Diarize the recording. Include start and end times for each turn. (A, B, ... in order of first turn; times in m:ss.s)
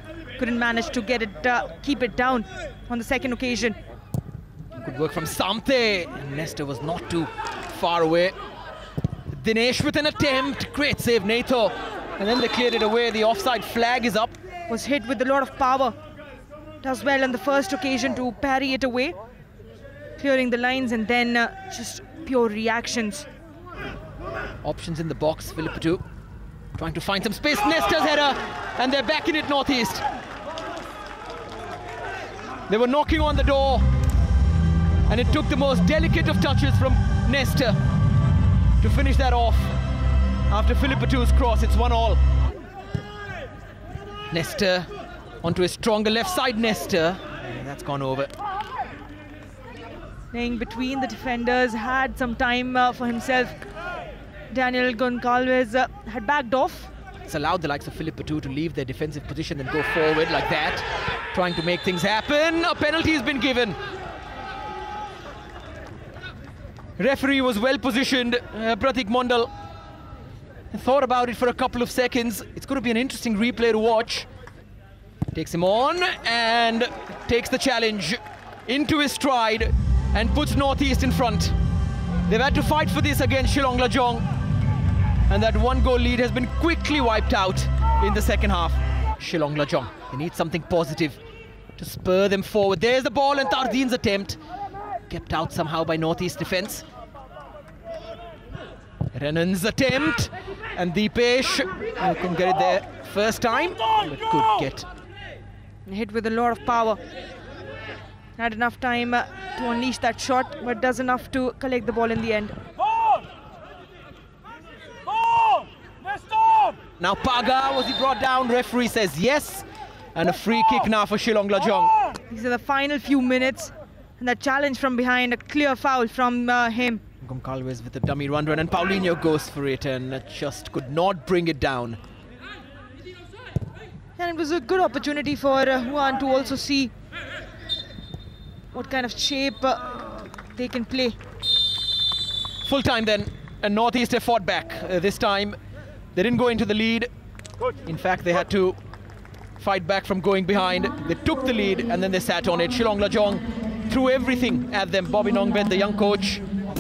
0:00.4-0:03.8 A
0:04.8-0:08.4 B
0:09.3-0:14.3 B
0:14.7-0:16.0 A
0:16.8-0:19.2 A
0:20.2-0:23.3 A
0:24.6-0:26.0 B
0:26.8-0:30.1 B
0:32.7-0:33.9 B
0:35.1-0:37.8 B
0:38.8-0:39.8 B
0:40.5-0:42.2 B
0:44.3-0:44.9 B
0:45.4-0:48.3 B
0:50.3-0:53.6 A
0:54.5-0:56.9 A
0:57.3-1:03.8 B
1:07.0-1:09.5 B
1:10.7-1:14.3 B
1:15.3-1:21.6 B
1:22.3-1:24.2 B
1:25.3-1:31.2 B
1:31.8-1:34.4 B
1:35.1-1:36.9 B
1:39.1-1:44.9 B
1:45.9-1:47.0 A
1:48.4-1:52.6 A
1:57.0-2:02.0 B
2:02.3-2:07.0 A
2:07.2-2:12.0 B
2:14.2-2:16.9 A
2:18.7-2:19.9 A
2:20.5-2:21.2 A
2:22.6-2:25.6 B
2:26.1-2:27.1 B
2:27.8-2:28.8 B
2:29.6-2:36.4 B